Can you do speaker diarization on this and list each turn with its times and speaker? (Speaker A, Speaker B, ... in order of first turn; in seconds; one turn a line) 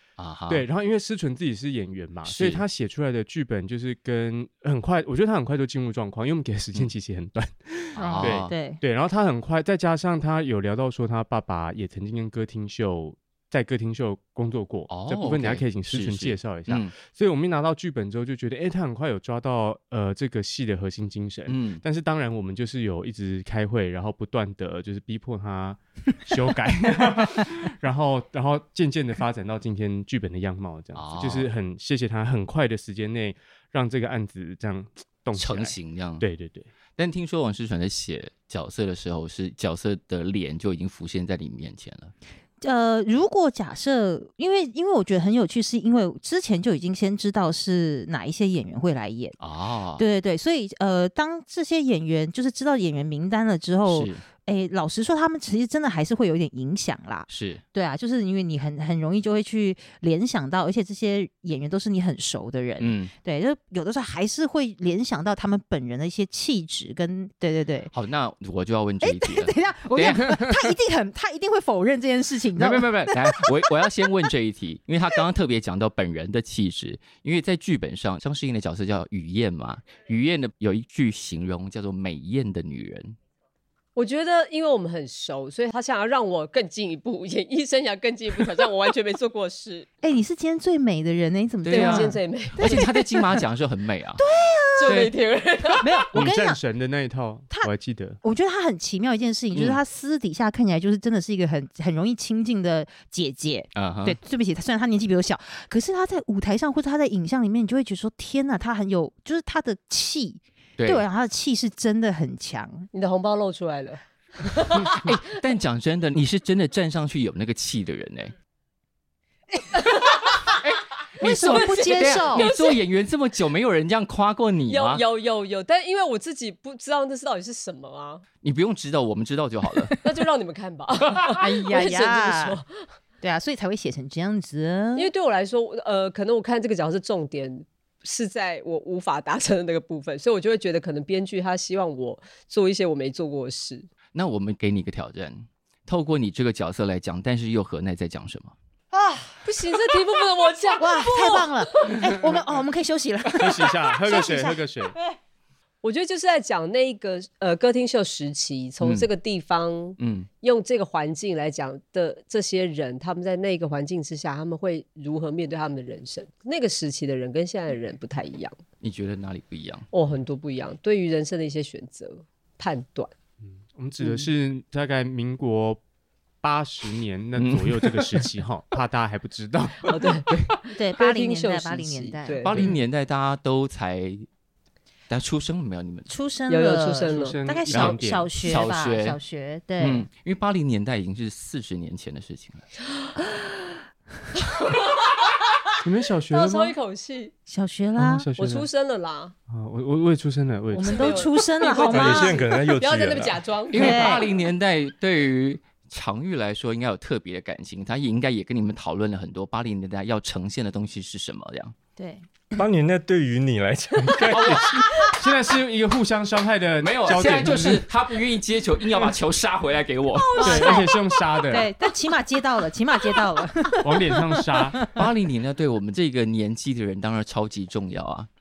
Speaker A: 0.2-0.7
Speaker B: 0.5-36.7
Speaker A: 2.2-2.6
Speaker A: 8.0-8.5
Speaker C: 8.0-8.8
Speaker A: 14.9-16.9
Speaker A: 21.5-21.8
Speaker A: 30.9-31.5
Speaker A: 35.3-36.2
Speaker A: 37.0-42.1
Speaker C: 42.6-49.4
Speaker A: 49.4-50.0
Speaker C: 50.0-67.9
Speaker A: 53.9-54.2
Speaker A: 57.3-57.6
Speaker A: 62.8-63.1
Speaker A: 67.9-70.7
Speaker C: 69.0-74.1
Speaker A: 72.5-83.1
Speaker D: 84.0-89.9
Speaker C: 90.0-93.4
Speaker A: 91.6-94.2
Speaker D: 91.7-92.9
Speaker C: 94.2-95.0
Speaker D: 94.8-96.0
Speaker A: 94.8-95.1
Speaker C: 95.8-96.6
Speaker B: 96.1-98.2
Speaker C: 98.2-112.9
Speaker A: 99.5-99.8
Speaker A: 103.7-104.2
Speaker A: 110.8-111.0
Speaker D: 112.9-115.1
Speaker A: 114.8-118.3
Speaker D: 119.7-120.5
Speaker A: 120.6-125.0
Speaker C: 121.2-122.5
Speaker D: 121.2-122.8
Speaker D: 124.7-128.2
Speaker A: 128.4-130.0
Speaker D: 130.0-132.7
Speaker C: 131.3-132.6
Speaker C: 133.2-135.1
Speaker D: 134.9-143.9
Speaker A: 144.1-148.5
Speaker C: 148.9-149.4
Speaker D: 149.4-152.2
Speaker C: 150.8-154.6
Speaker B: 153.4-154.9
Speaker D: 155.8-168.6
Speaker A: 158.8-159.1
Speaker A: 160.0-160.3
Speaker A: 168.8-169.9
Speaker D: 169.9-173.1
Speaker B: 173.4-175.8
Speaker B: 176.4-180.6
Speaker A: 177.3-178.3
Speaker D: 179.8-182.7
Speaker C: 180.7-182.7
Speaker A: 182.4-184.2
Speaker A: 185.1-186.1
Speaker C: 186.1-190.1
Speaker D: 186.5-187.4
Speaker B: 187.1-188.5
Speaker A: 187.7-189.2
Speaker A: 189.8-192.7
Speaker D: 194.4-195.3
Speaker B: 195.8-196.8
Speaker D: 196.3-197.3
Speaker C: 197.5-198.3
Speaker B: 198.0-198.7
Speaker D: 198.3-199.3
Speaker B: 199.5-201.3
Speaker C: 200.7-202.4
Speaker D: 200.8-204.3
Speaker E: 201.9-203.4
Speaker A: 203.7-211.7
Speaker C: 203.7-204.3
Speaker C: 212.0-212.4
Speaker E: 212.6-214.8
Speaker A: 214.2-214.9
Speaker B: 215.0-217.9
Speaker A: 216.8-220.4
Speaker D: 220.2-221.2
Speaker C: 220.4-225.0
Speaker B: 220.4-221.7
Speaker B: 223.8-224.9
Speaker A: 224.9-228.3